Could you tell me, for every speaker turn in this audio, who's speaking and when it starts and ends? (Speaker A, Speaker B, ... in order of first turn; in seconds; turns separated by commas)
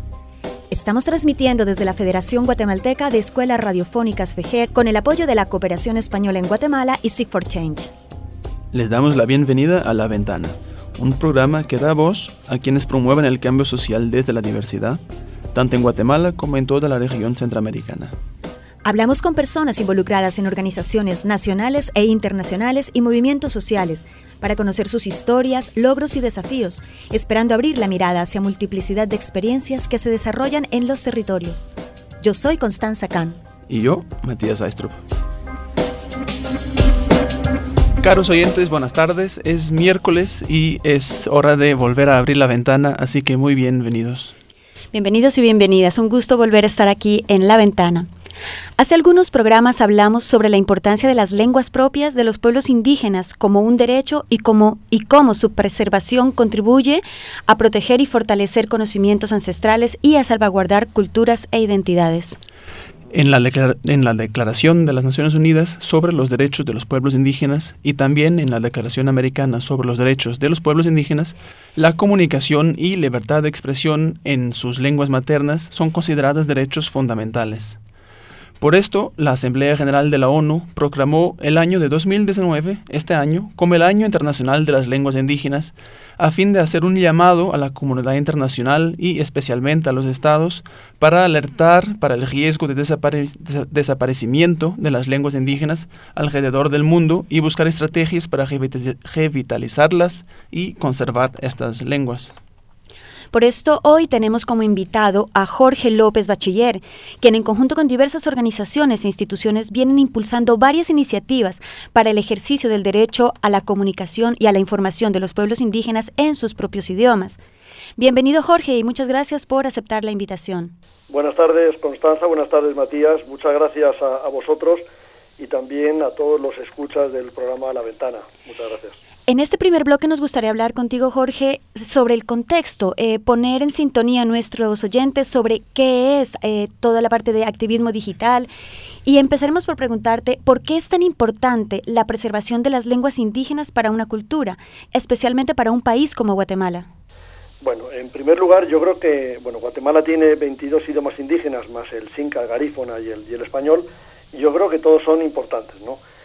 Speaker A: 0.7-7.9, Speaker B: 8.7-15.0, Speaker B: 15.5-18.1, Speaker A: 18.8-31.7, Speaker A: 32.2-33.4, Speaker B: 33.7-35.0, Speaker B: 38.0-44.3, Speaker A: 44.9-48.1, Speaker A: 48.8-62.4, Speaker B: 63.1-77.8, Speaker B: 78.6-102.3, Speaker A: 103.3-117.4, Speaker A: 118.0-120.7, Speaker C: 121.1-124.8, Speaker C: 125.4-129.0, Speaker A: 129.3-138.5, Speaker A: 139.0-146.9, Speaker C: 147.6-156.0